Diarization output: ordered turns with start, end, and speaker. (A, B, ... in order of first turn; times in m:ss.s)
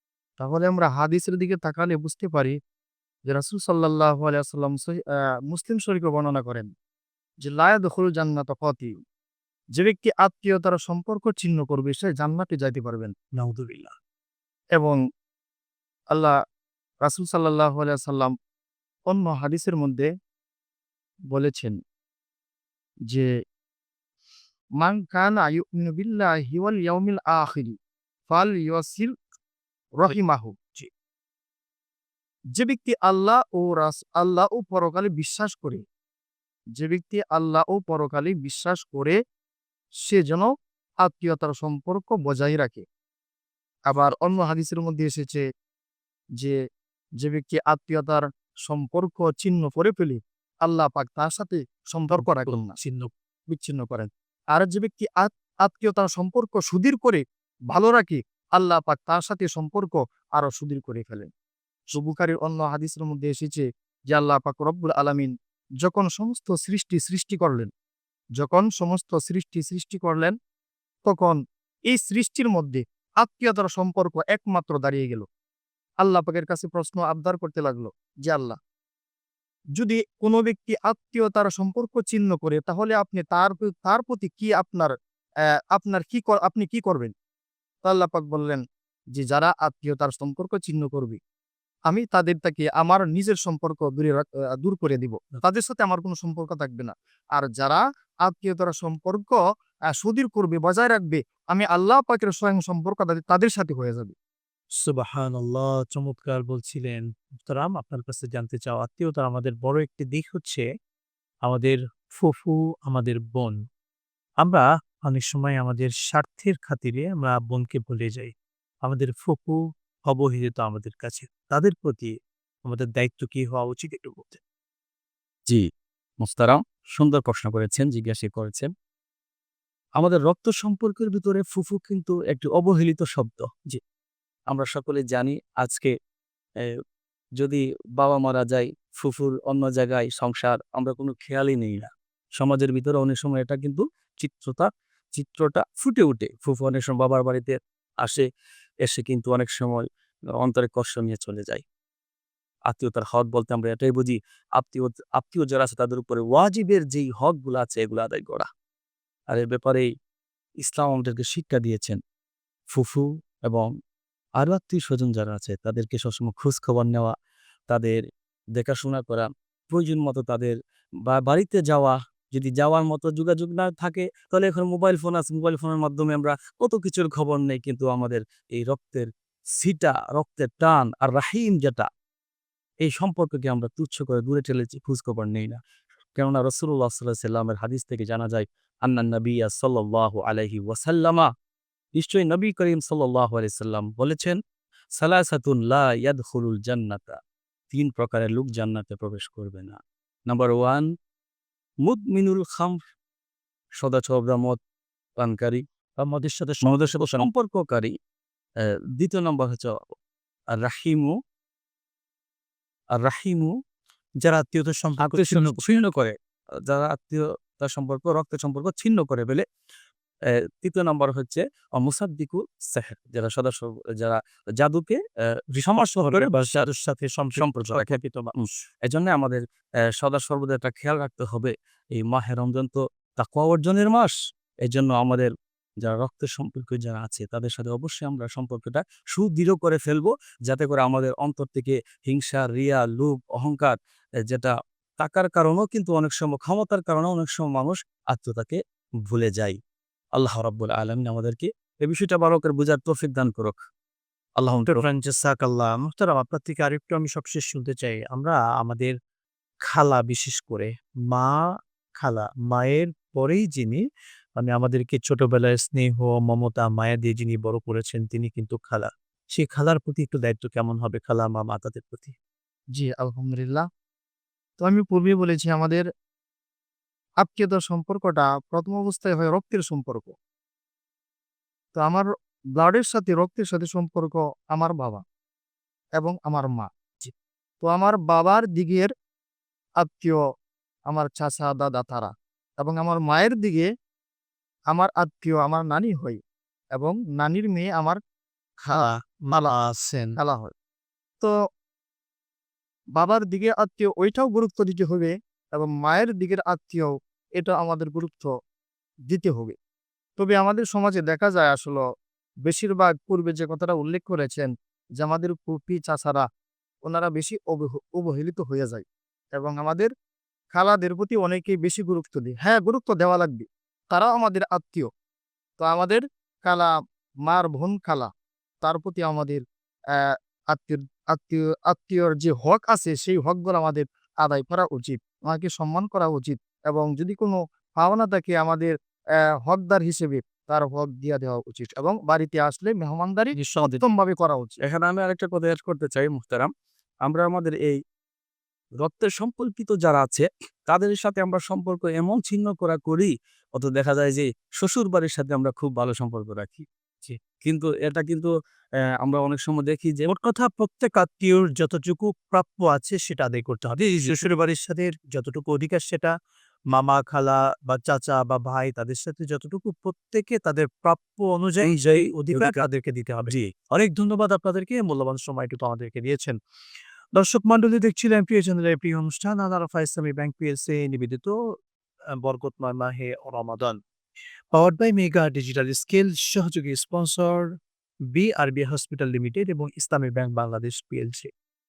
0:00.4-0:02.6 A
0:03.3-0:06.7 A
0:07.4-0:09.0 A
0:09.8-0:13.1 A
0:13.3-0:13.9 B
0:17.0-0:18.3 A
0:19.1-0:20.1 A
0:21.3-0:21.8 A
0:24.8-0:27.7 A
0:28.3-0:29.1 A
0:30.0-0:30.5 A
0:32.6-0:35.8 A
0:36.8-0:39.2 A
0:40.0-0:40.5 A
0:41.0-0:42.8 A
0:43.9-0:45.4 A
0:47.2-0:52.7 A
0:52.1-0:53.1 B
0:53.5-1:01.3 A
1:01.9-1:07.7 A
1:08.4-1:10.3 A
1:11.0-1:15.2 A
1:16.0-1:18.6 A
1:19.8-1:24.9 A
1:25.7-1:27.1 A
1:27.8-1:28.6 A
1:29.1-1:31.2 A
1:31.9-1:44.1 A
1:44.8-1:50.7 B
1:51.4-1:53.6 B
1:54.4-1:58.3 B
1:58.8-2:02.1 B
2:02.6-2:04.4 B
2:06.2-2:08.7 C
2:10.0-2:13.6 C
2:14.5-2:15.9 C
2:17.4-2:28.2 C
2:28.8-2:31.6 C
2:32.7-2:38.5 C
2:39.3-2:39.9 C
2:40.6-2:42.0 C
2:42.7-2:43.7 C
2:44.4-2:47.1 C
2:47.7-2:48.0 C
2:48.6-3:01.9 C
3:02.8-3:05.6 C
3:06.2-3:11.3 C
3:11.9-3:14.4 C
3:15.0-3:17.2 C
3:17.7-3:20.9 C
3:21.8-3:22.8 C
3:23.8-3:24.6 C
3:25.2-3:25.6 C
3:26.0-3:27.3 B
3:26.6-3:27.9 C
3:29.0-3:29.9 C
3:30.5-3:31.2 C
3:32.9-3:33.5 C
3:34.2-3:35.6 B
3:35.0-3:39.4 C
3:40.6-3:46.5 C
3:46.1-3:48.3 B
3:47.3-3:49.4 C
3:49.9-4:09.6 C
4:10.2-4:13.6 C
4:14.4-4:14.7 C
4:14.6-4:19.0 B
4:19.7-4:21.4 B
4:22.0-4:23.8 B
4:24.4-4:32.2 B
4:32.8-4:33.6 A
4:34.6-4:35.8 A
4:37.2-4:40.1 A
4:41.7-4:45.0 A
4:46.0-4:46.7 A
4:47.6-4:48.9 A
4:49.8-4:50.2 A
4:50.9-4:53.7 A
4:54.7-4:56.2 A
4:56.7-4:58.0 A
4:58.6-5:00.2 B
5:00.2-5:00.5 A
5:03.0-5:08.3 A
5:09.1-5:09.6 A
5:10.2-5:11.8 A
5:12.4-5:16.2 A
5:16.8-5:19.9 A
5:20.5-5:24.9 A
5:25.6-5:26.7 A
5:27.3-5:28.1 A
5:28.6-5:29.4 A
5:29.9-5:38.7 A
5:39.4-5:44.6 A
5:43.4-5:43.8 B
5:44.6-5:46.5 C
5:47.0-5:47.8 C
5:48.8-5:56.6 C
5:57.4-6:00.1 C
6:00.0-6:06.1 B
6:06.7-6:16.4 B
6:11.6-6:12.6 C
6:13.3-6:13.5 C
6:17.2-6:21.3 B
6:22.2-6:23.8 B
6:24.5-6:27.5 B
6:28.1-6:31.3 B